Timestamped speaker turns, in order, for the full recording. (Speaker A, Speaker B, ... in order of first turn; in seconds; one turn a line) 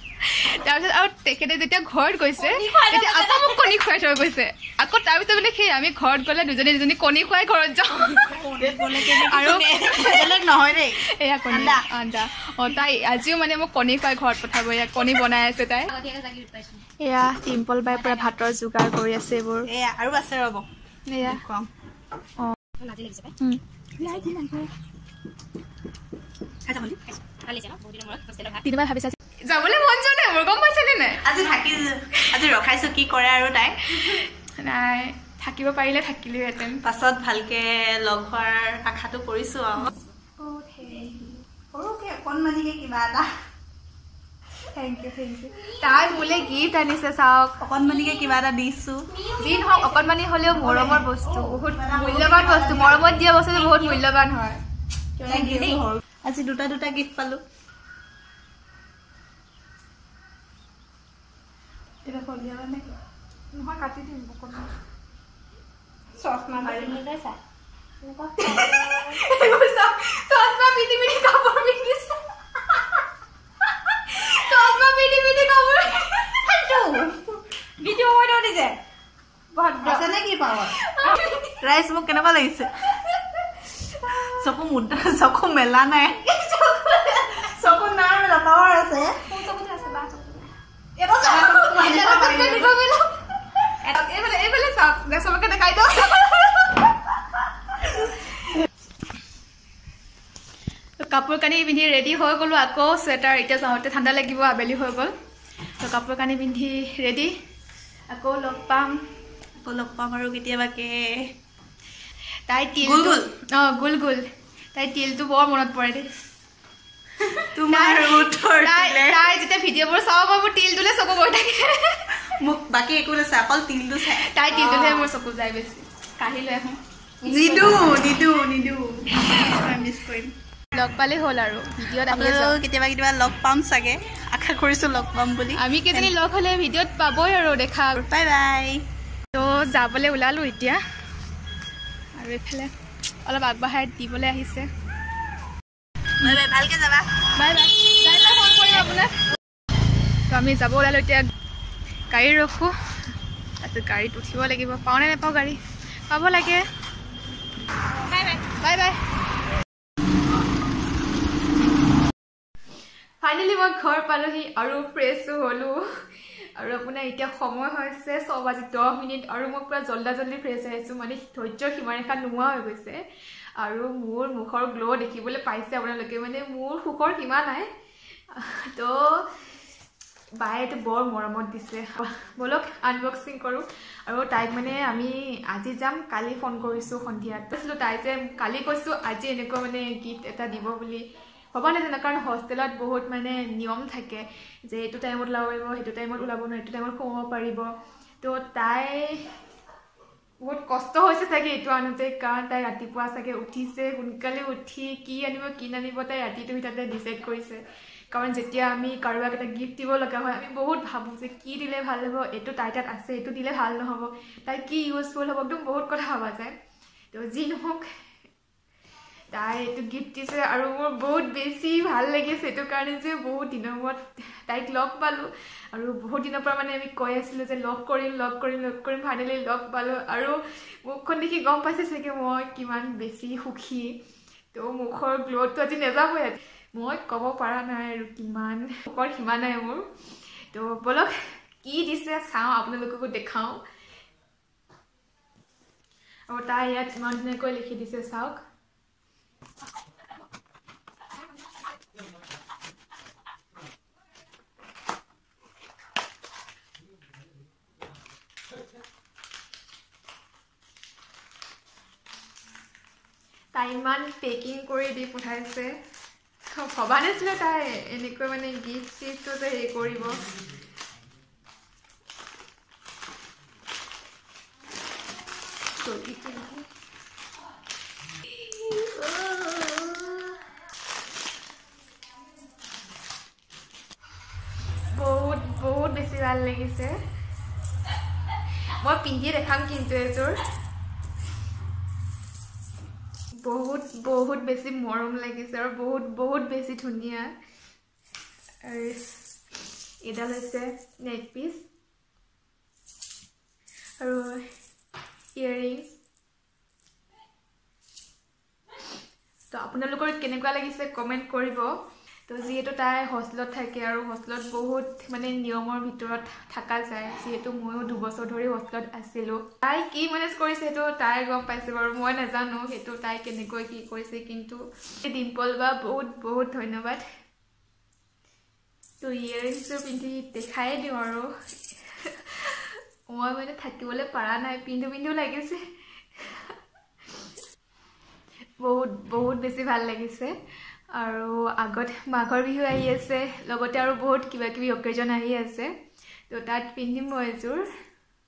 Speaker A: 0.2-8.4
Speaker B: 2.4-3.7
Speaker C: 8.3-11.0
Speaker A: 9.0-10.4
Speaker A: 11.1-15.9
Speaker C: 11.5-11.8
Speaker B: 15.9-16.8
Speaker A: 17.0-19.7
Speaker B: 17.9-18.3
Speaker C: 19.7-20.6
Speaker A: 21.1-21.4
Speaker C: 21.2-21.7
Speaker B: 22.8-23.3
Speaker A: 23.4-24.7
Speaker B: 24.0-24.3
Speaker C: 26.6-27.0
Speaker B: 27.2-28.6
Speaker A: 28.6-31.2
Speaker C: 31.2-34.2
Speaker A: 32.2-32.5
Speaker A: 34.0-36.8
Speaker C: 36.8-39.9
Speaker A: 40.4-41.4
Speaker C: 41.7-43.3
Speaker A: 44.7-47.6
Speaker B: 45.8-46.5
Speaker C: 47.6-49.0
Speaker B: 47.9-48.3
Speaker B: 49.1-50.3
Speaker A: 49.4-54.6
Speaker C: 50.5-53.3
Speaker B: 53.5-54.0
Speaker C: 55.2-57.4
Speaker B: 55.3-55.8
Speaker A: 62.0-62.8
Speaker A: 63.5-64.7
Speaker B: 66.2-67.4
Speaker C: 66.6-67.0
Speaker B: 68.0-69.2
Speaker A: 68.4-72.2
Speaker A: 72.7-73.0
Speaker A: 73.9-76.5
Speaker B: 76.5-77.3
Speaker B: 77.8-78.8
Speaker A: 79.6-80.0
Speaker B: 79.7-80.0
Speaker C: 79.8-80.7
Speaker A: 80.8-81.5
Speaker C: 81.6-82.7
Speaker C: 84.3-86.5
Speaker A: 86.5-87.3
Speaker C: 87.1-89.2
Speaker A: 89.2-90.5
Speaker C: 91.0-92.7
Speaker A: 91.2-93.1
Speaker A: 93.8-96.9
Speaker A: 101.0-105.1
Speaker A: 105.8-107.3
Speaker A: 108.1-109.0
Speaker C: 109.6-111.3
Speaker A: 112.5-116.1
Speaker C: 112.8-113.3
Speaker C: 117.5-119.2
Speaker A: 117.7-122.2
Speaker C: 122.4-124.3
Speaker A: 124.1-126.8
Speaker B: 124.5-125.1
Speaker B: 127.2-128.1
Speaker C: 127.2-130.3
Speaker A: 130.7-132.6
Speaker C: 132.1-136.1
Speaker A: 135.6-138.1
Speaker C: 138.0-138.8
Speaker A: 139.3-140.8
Speaker A: 142.2-142.7
Speaker A: 143.2-144.7
Speaker C: 146.2-147.3
Speaker A: 147.3-149.1
Speaker A: 150.3-151.3
Speaker A: 152.1-152.7
Speaker A: 153.6-156.6
Speaker B: 158.1-158.4
Speaker A: 158.2-159.0
Speaker A: 163.2-173.0
Speaker A: 173.6-177.7
Speaker A: 178.3-179.3
Speaker A: 180.4-197.7
Speaker A: 198.2-199.3
Speaker A: 200.4-216.5
Speaker A: 217.1-217.9
Speaker A: 219.3-234.0
Speaker A: 234.5-239.9
Speaker A: 240.5-243.6
Speaker A: 246.3-248.4
Speaker A: 263.5-265.7
Speaker A: 266.5-270.2
Speaker A: 275.8-276.6
Speaker A: 278.4-280.3
Speaker A: 284.9-287.0
Speaker A: 288.8-290.4
Speaker A: 293.4-297.3
Speaker A: 298.6-299.2
Speaker A: 300.0-301.6
Speaker A: 304.0-304.4
Speaker A: 305.4-305.9
Speaker A: 309.5-311.7
Speaker A: 312.3-327.0
Speaker A: 329.0-331.3
Speaker A: 332.0-335.6
Speaker A: 336.2-336.5
Speaker A: 338.6-340.3
Speaker A: 340.9-345.7
Speaker A: 346.3-347.6